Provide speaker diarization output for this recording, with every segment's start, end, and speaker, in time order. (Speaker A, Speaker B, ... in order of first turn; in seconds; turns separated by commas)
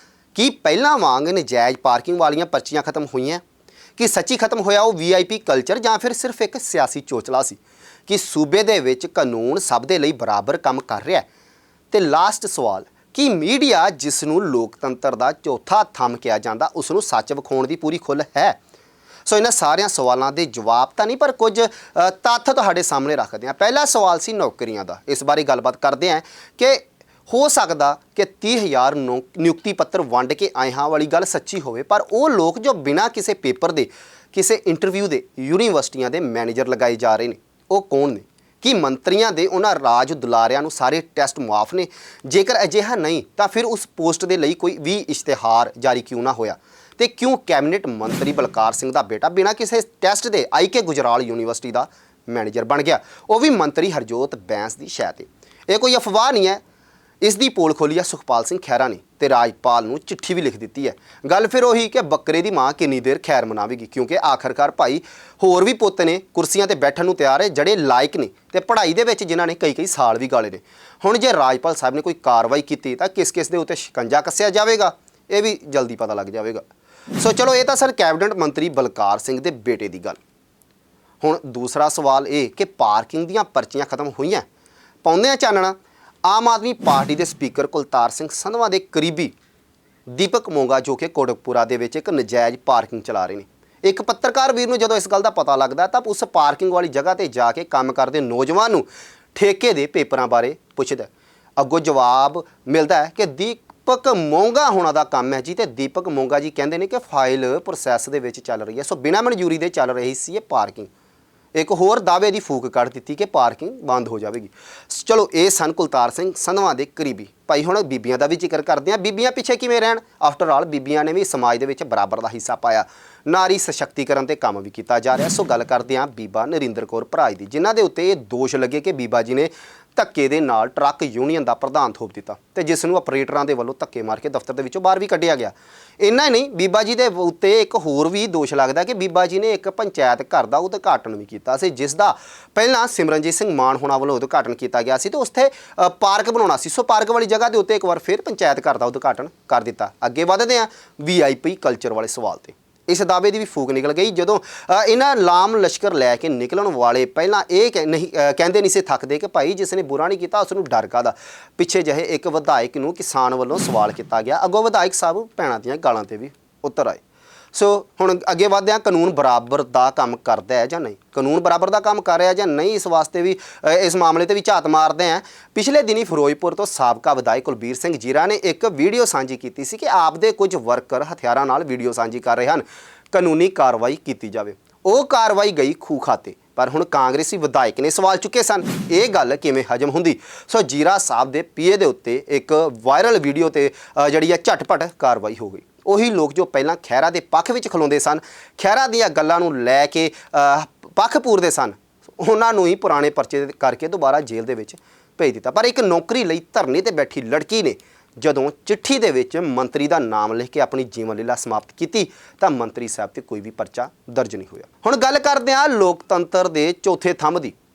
Speaker A: 0.3-3.4, Speaker A: 4.0-11.2, Speaker A: 11.9-18.6, Speaker A: 19.2-56.6, Speaker A: 57.2-76.6, Speaker A: 77.2-80.2, Speaker A: 81.2-84.5, Speaker A: 85.0-89.3, Speaker A: 90.1-110.9, Speaker A: 111.5-167.0, Speaker A: 167.5-217.5